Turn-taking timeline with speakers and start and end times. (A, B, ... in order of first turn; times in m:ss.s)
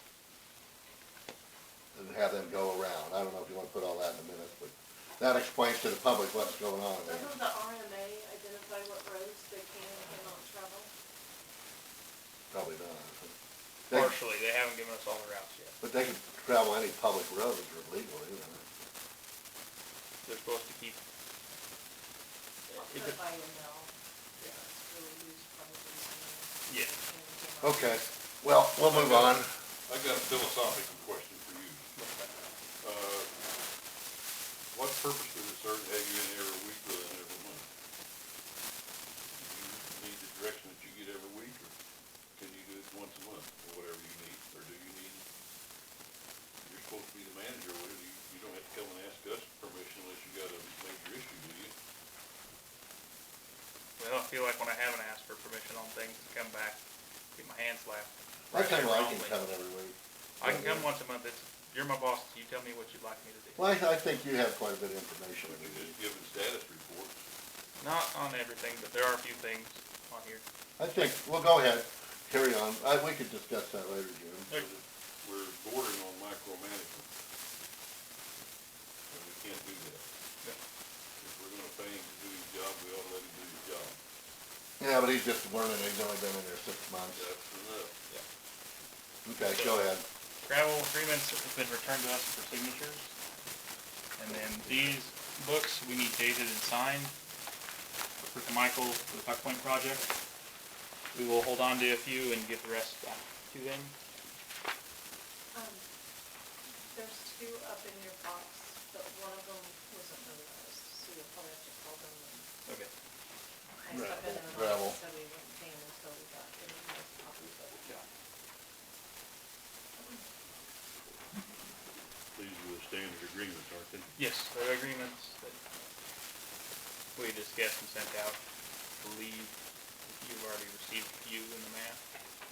0:01.9-0:07.3 A
0:07.0-0:10.9 B
0:12.5-0:13.3 A
0:13.9-0:15.8 C
0:15.8-0:18.6 A
0:20.2-0:21.0 C
0:22.7-0:23.2 C
0:22.7-0:28.1 B
0:26.7-0:26.9 C
0:27.6-0:29.5 A
0:28.8-0:31.9 D
0:32.0-0:32.3 C
0:32.8-0:33.3 D
0:34.7-0:37.6 D
0:39.4-0:41.7 D
0:42.4-0:45.2 D
0:46.6-0:51.7 D
0:54.0-0:56.8 C
0:57.4-0:59.4 C
0:58.5-1:00.9 A
1:00.4-1:03.8 C
1:03.6-1:06.0 A
1:05.4-1:07.1 D
1:07.8-1:10.4 C
1:10.8-1:14.5 A
1:14.5-1:17.0 D
1:19.1-1:20.0 D
1:21.2-1:24.0 D
1:24.8-1:27.3 A
1:27.1-1:27.9 D
1:29.2-1:30.0 A
1:29.4-1:29.9 C
1:30.4-1:33.1 C
1:34.2-1:37.1 C
1:38.2-1:40.1 C
1:41.1-1:43.9 C
1:45.5-1:45.8 B
1:46.9-1:52.5 B
1:52.6-1:52.9 C
1:53.8-1:57.9 B
1:53.9-1:55.0 A
2:02.3-2:04.1 D
2:04.2-2:05.6 C
2:07.1-2:08.4 C
2:09.0-2:12.0 C